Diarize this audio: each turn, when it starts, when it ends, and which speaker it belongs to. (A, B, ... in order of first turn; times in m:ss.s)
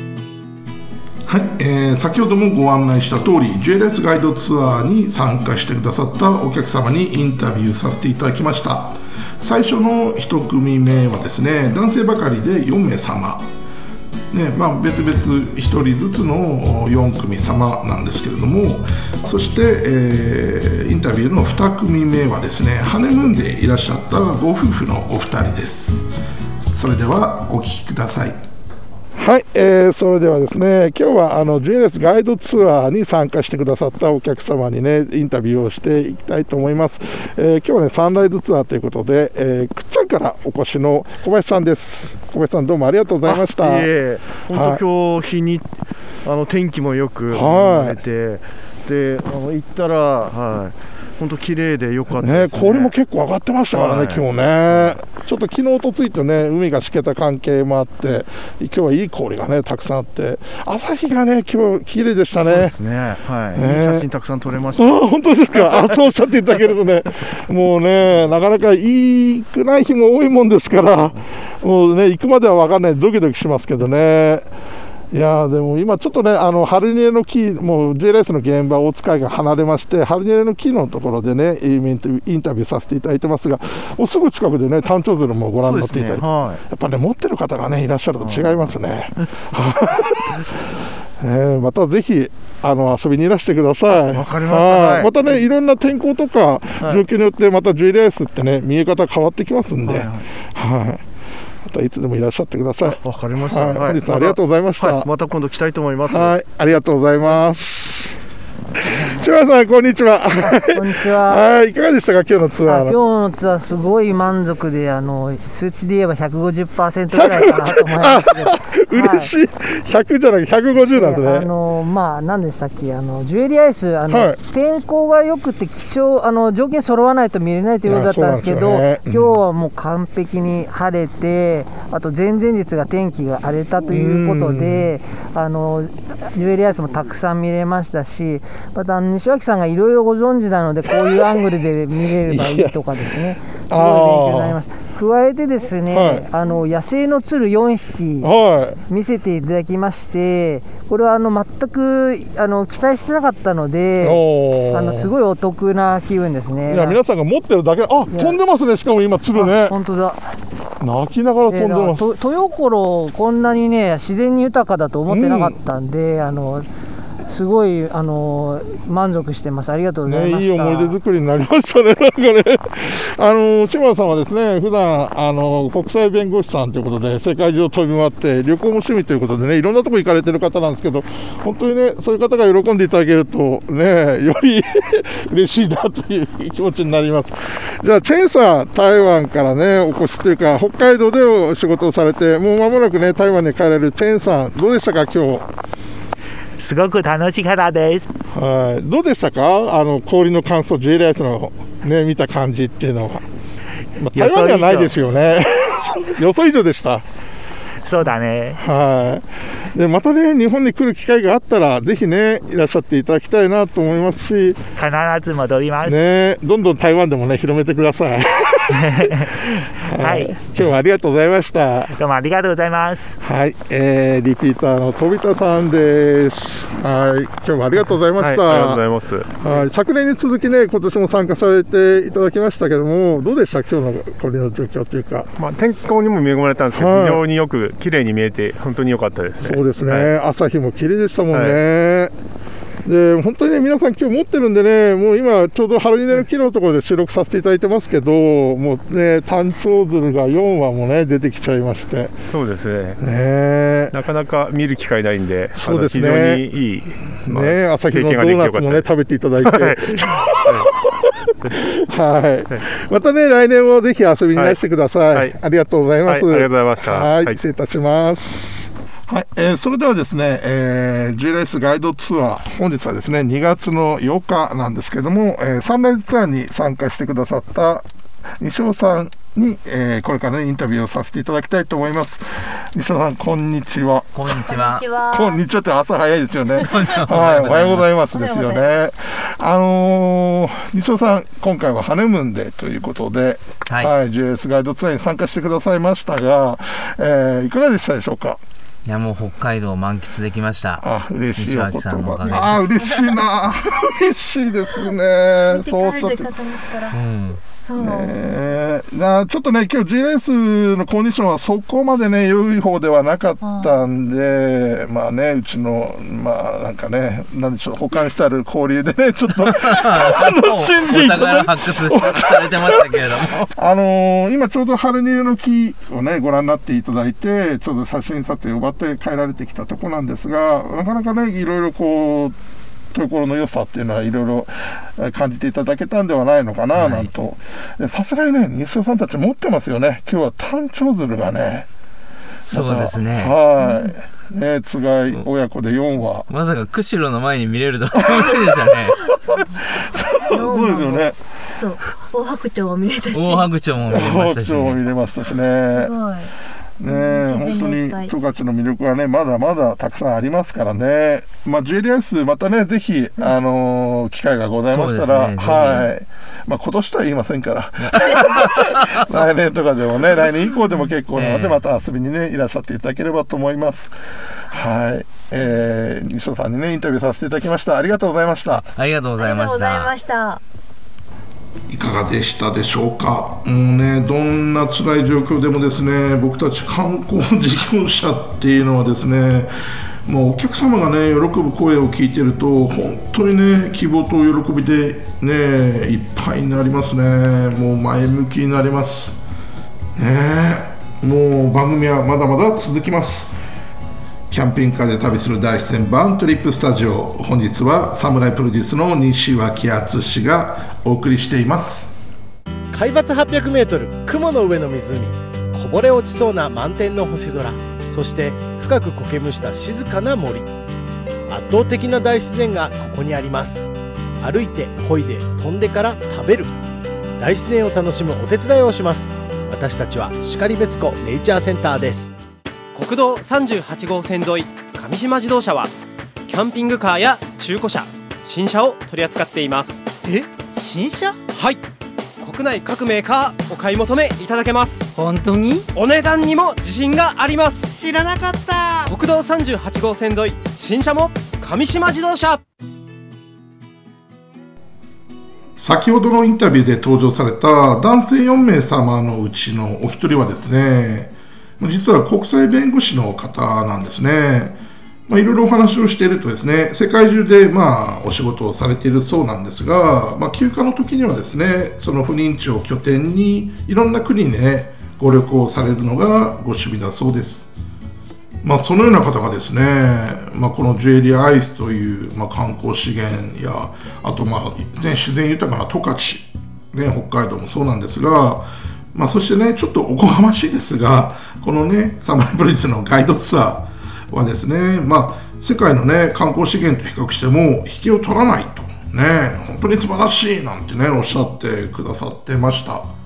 0:01.3-0:13.5 A
0:14.3-0:26.1 A
0:26.7-0:28.4 A
0:29.2-0:43.9 A
0:43.3-0:52.9 B
0:44.5-0:44.8 A
0:47.3-0:48.0 A
0:52.1-1:02.8 A
0:53.7-0:55.0 B
1:02.4-1:06.0 B
1:03.5-1:04.1 A
1:04.8-1:14.5 A
1:15.1-1:30.5 A
1:25.6-1:26.6 B
1:28.2-1:28.6 B
1:31.2-1:41.0 A
1:34.0-1:35.4 B
1:39.8-1:40.3 B
1:41.6-1:45.1 A
1:42.8-1:46.4 B
1:46.0-1:48.1 A
1:48.8-1:53.0 A
1:50.4-1:51.5 C
1:52.6-1:59.3 C
1:57.1-2:01.5 A
2:00.9-2:28.3 C
2:04.1-2:04.4 A
2:07.8-2:09.4 A
2:13.8-2:14.9 A
2:22.3-2:22.8 A
2:23.7-2:24.6 A
2:25.9-2:26.3 A
2:28.2-2:28.8 A
2:28.9-2:37.0 C
2:34.0-2:35.1 A
2:36.7-2:39.7 A
2:38.1-2:38.4 C
2:39.3-2:40.3 C
2:40.8-2:42.1 A
2:41.5-2:46.7 C
2:45.1-2:45.6 A
2:47.3-2:51.0 C
2:50.0-3:15.5 A
3:16.6-3:18.1 D
3:18.3-3:23.2 A
3:24.0-3:27.1 A
3:24.2-3:24.8 E
3:27.9-3:28.6 D
3:28.6-3:34.6 A
3:34.8-3:36.0 D
3:35.8-3:42.0 A
3:38.8-3:40.4 D
3:42.0-3:43.1 D
3:43.2-3:48.8 A
3:48.2-3:49.6 E
3:49.4-3:55.3 A
3:55.4-4:00.1 E
3:56.7-3:57.2 A
3:59.4-4:02.1 A
4:01.3-4:01.6 E
4:02.8-4:12.2 A
4:12.3-4:13.0 E
4:13.0-4:14.0 A
4:13.9-4:18.9 E
4:15.6-4:16.5 A
4:17.2-4:37.9 A
4:19.4-4:20.7 E
4:24.3-4:25.4 E
4:26.0-4:27.4 E
4:38.4-4:58.4 A
4:44.1-4:44.9 F
4:44.4-4:45.4 G
4:46.7-4:47.9 F
4:48.1-4:48.7 G
4:53.7-4:53.9 F
4:58.8-5:00.8 F
5:00.8-5:06.3 A
5:01.4-5:02.7 F
5:05.5-5:06.9 G
5:06.9-5:07.4 F
5:07.6-5:08.2 G
5:07.8-5:32.4 A
5:13.4-5:13.7 G
5:19.5-5:23.4 F
5:32.9-5:41.7 A
5:36.8-5:37.1 F
5:42.5-5:46.3 A
5:42.5-5:43.4 F
5:43.6-5:43.9 G
5:46.3-5:48.9 F
5:47.9-5:51.2 A
5:49.0-5:49.6 G
5:50.3-5:53.5 G
5:53.1-5:54.8 F
5:53.9-5:55.9 A
5:55.6-5:58.1 G
5:56.8-6:13.9 A
6:04.6-6:05.9 F
6:11.1-6:11.6 F
6:14.5-6:18.6 A
6:18.6-6:19.9 F
6:19.2-6:20.4 G
6:21.7-6:29.5 A
6:30.1-6:39.2 A
6:40.0-6:43.4 A
6:44.3-6:51.9 A
6:52.7-7:00.5 H
7:01.3-7:03.6 H
7:04.2-7:06.5 H
7:07.2-7:12.1 H
7:12.7-7:15.7 I
7:16.3-7:19.8 I
7:20.0-7:21.1 J
7:21.3-7:21.6 I
7:22.2-7:24.9 I
7:24.9-7:25.6 J
7:25.7-7:27.7 I
7:27.6-7:28.9 J
7:28.9-7:32.4 I
7:35.6-7:57.5 A
7:58.4-8:22.9 A